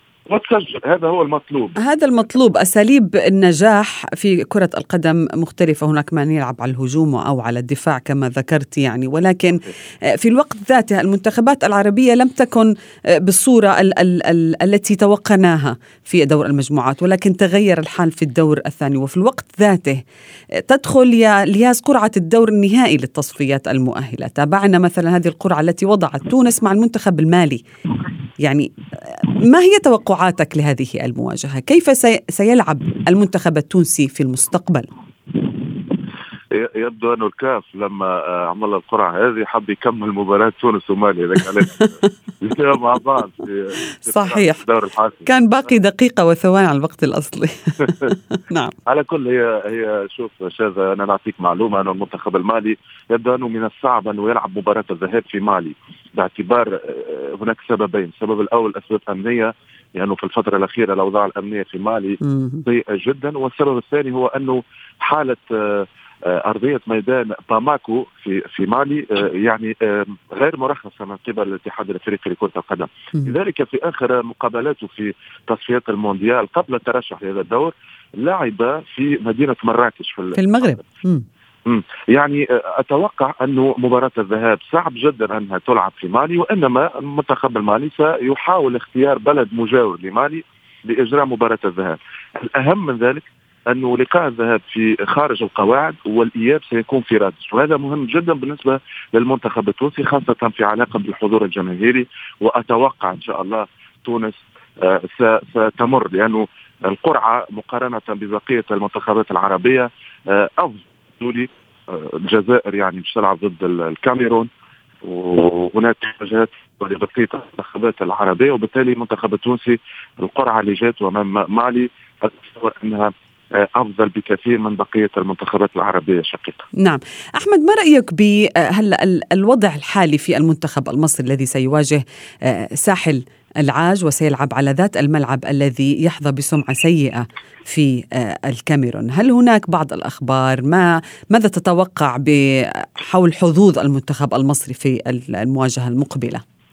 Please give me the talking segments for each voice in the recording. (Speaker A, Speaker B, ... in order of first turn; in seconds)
Speaker A: 0.3-1.8, 36.5-45.3, 48.9-80.8, 81.7-114.5, 115.0-126.6
Speaker B: 1.8-20.0, 20.6-27.6, 28.4-28.7, 29.3-34.9, 44.0-44.6, 45.2-48.7, 62.2-62.6, 80.3-81.2, 126.8-146.4